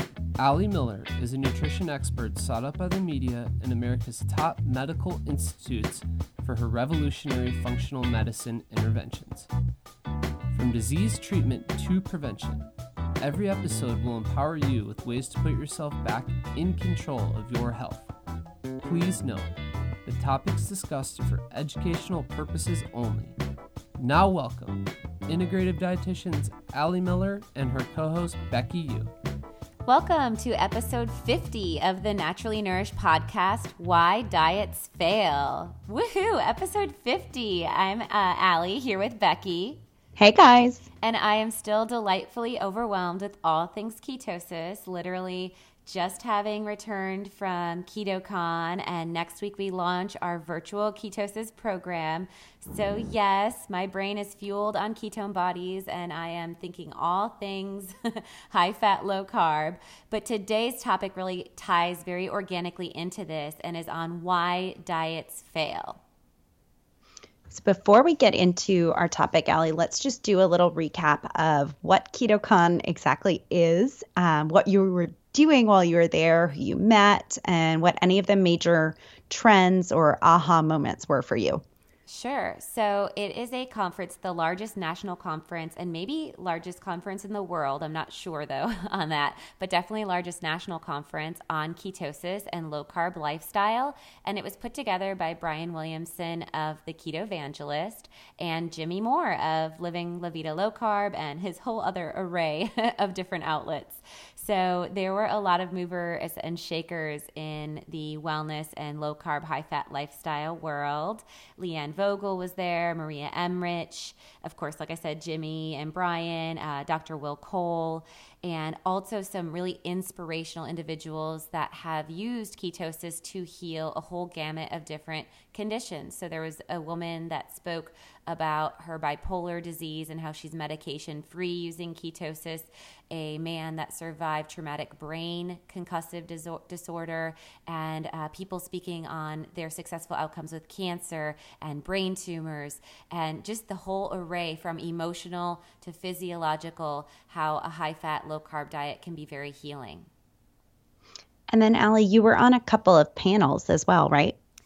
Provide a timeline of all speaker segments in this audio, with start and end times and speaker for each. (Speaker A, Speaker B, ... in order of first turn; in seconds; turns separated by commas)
Speaker A: 0.4-9.5, Speaker A: 10.5-18.1, Speaker A: 18.8-19.5, Speaker A: 20.1-23.4, Speaker A: 24.0-29.1, Speaker B: 29.9-39.8, Speaker C: 40.2-40.9, Speaker B: 41.0-66.0, Speaker C: 67.5-81.6, Speaker B: 82.1-150.1, Speaker C: 151.5-154.4